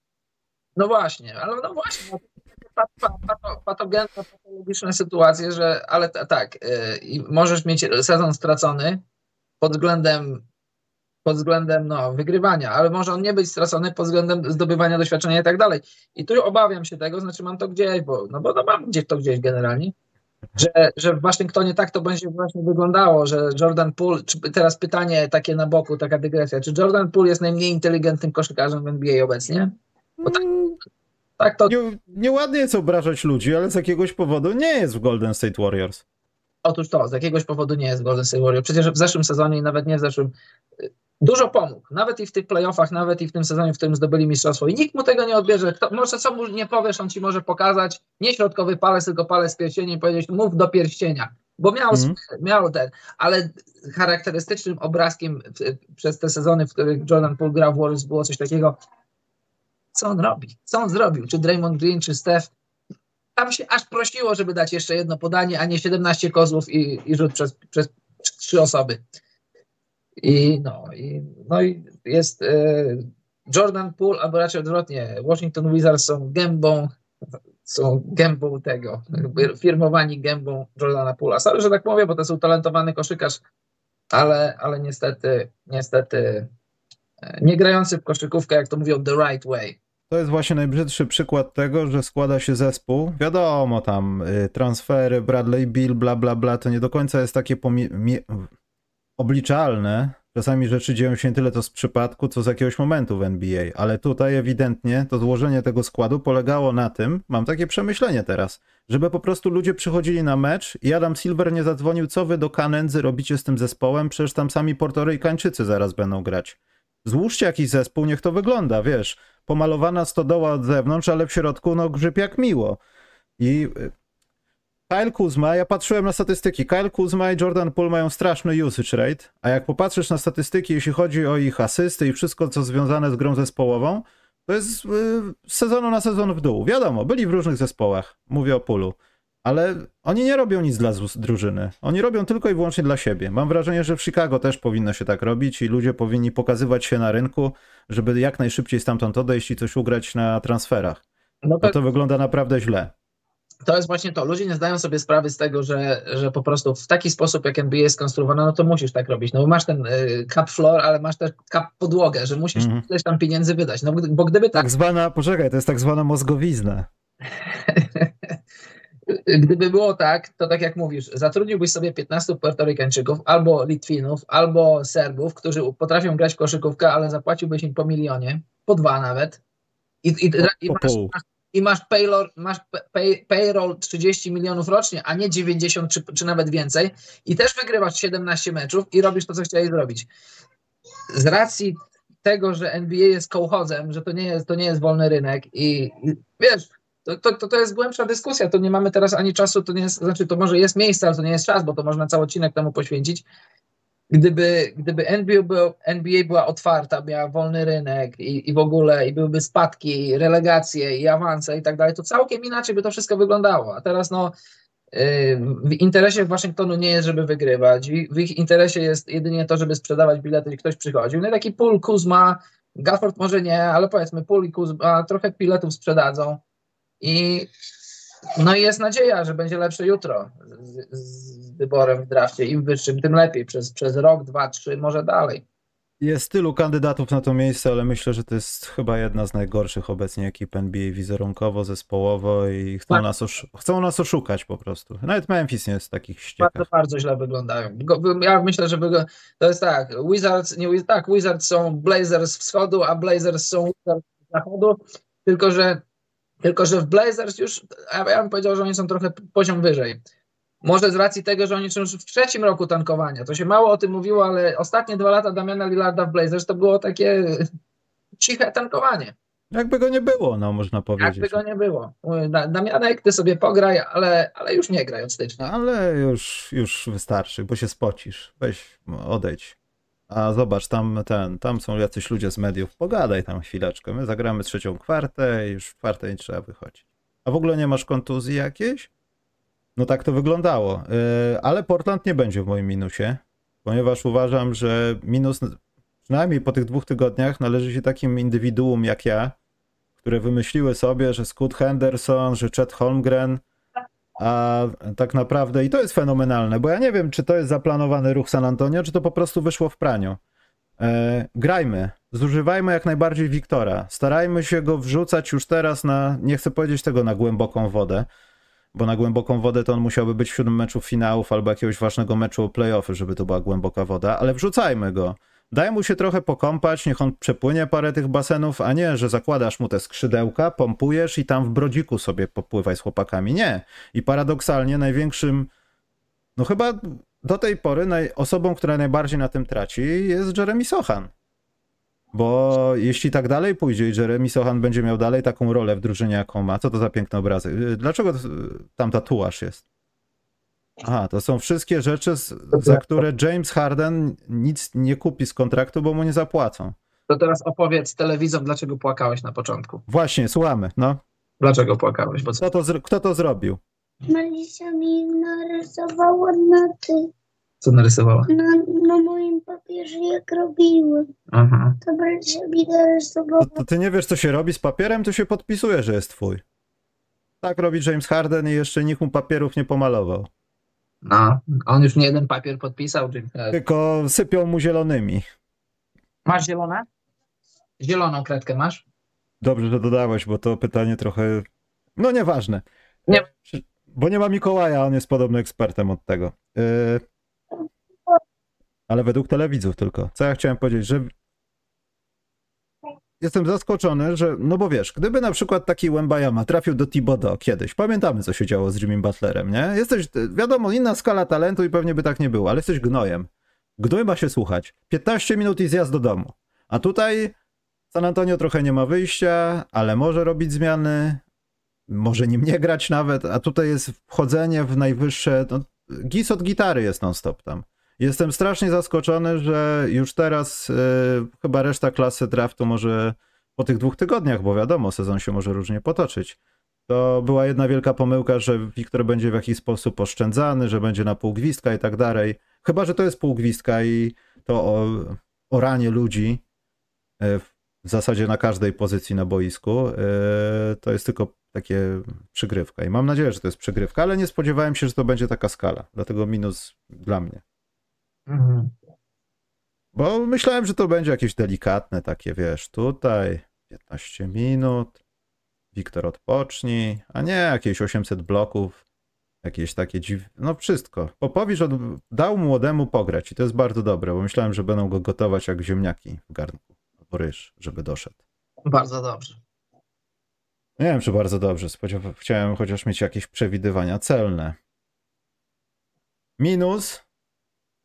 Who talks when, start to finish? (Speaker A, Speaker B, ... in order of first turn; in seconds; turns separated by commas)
Speaker A: 0.8-9.0, Speaker A: 9.6-10.4, Speaker A: 11.2-19.9, Speaker A: 20.6-29.7, Speaker B: 30.2-30.8, Speaker A: 31.4-31.7, Speaker B: 31.7-36.0, Speaker A: 36.6-40.3, Speaker A: 41.2-58.8, Speaker B: 51.9-52.2, Speaker A: 59.9-62.5, Speaker A: 63.4-69.0, Speaker A: 70.2-76.9, Speaker A: 77.7-83.4, Speaker A: 84.1-86.5, Speaker A: 87.3-89.8, Speaker B: 90.1-98.5, Speaker B: 99.2-122.8, Speaker B: 123.4-123.9, Speaker B: 124.9-151.0, Speaker A: 151.4-151.8, Speaker B: 151.6-152.9, Speaker A: 153.7-164.8, Speaker B: 162.6-162.9, Speaker B: 164.6-166.9, Speaker A: 167.6-168.3, Speaker A: 169.1-179.4, Speaker A: 180.0-190.1, Speaker B: 180.4-181.1, Speaker A: 191.1-203.2, Speaker A: 204.1-214.3, Speaker A: 214.9-226.4, Speaker A: 227.0-227.5, Speaker A: 228.4-235.4, Speaker B: 236.0-246.7, Speaker A: 246.4-255.8, Speaker A: 256.4-260.0, Speaker A: 260.6-267.5, Speaker A: 268.2-269.1, Speaker B: 269.5-271.4, Speaker A: 271.0-275.5, Speaker B: 275.4-279.6, Speaker B: 280.1-288.9, Speaker B: 289.8-299.4, Speaker B: 300.0-303.4, Speaker B: 304.2-310.2, Speaker B: 310.8-318.1, Speaker B: 318.7-335.5, Speaker B: 336.4-341.1, Speaker B: 342.1-349.6, Speaker B: 350.8-356.8, Speaker A: 352.5-353.0, Speaker A: 357.1-359.8, Speaker B: 359.9-361.0, Speaker A: 361.4-362.4, Speaker B: 362.4-363.6, Speaker C: 364.1-367.1, Speaker A: 367.6-368.3, Speaker C: 368.3-371.1, Speaker A: 371.3-371.8, Speaker C: 371.8-373.6, Speaker B: 373.4-376.4, Speaker B: 377.4-380.3, Speaker A: 381.0-383.6, Speaker B: 383.5-385.2, Speaker A: 386.3-386.9, Speaker A: 387.8-388.8, Speaker B: 389.4-391.4, Speaker B: 392.0-397.0, Speaker B: 398.9-401.1, Speaker B: 403.2-417.4, Speaker B: 417.9-421.2, Speaker B: 421.9-446.4, Speaker B: 447.2-457.4, Speaker A: 458.3-458.7, Speaker B: 459.9-465.0, Speaker B: 465.7-468.8, Speaker B: 469.4-478.2, Speaker A: 478.7-479.4, Speaker B: 480.8-484.6, Speaker B: 486.4-487.0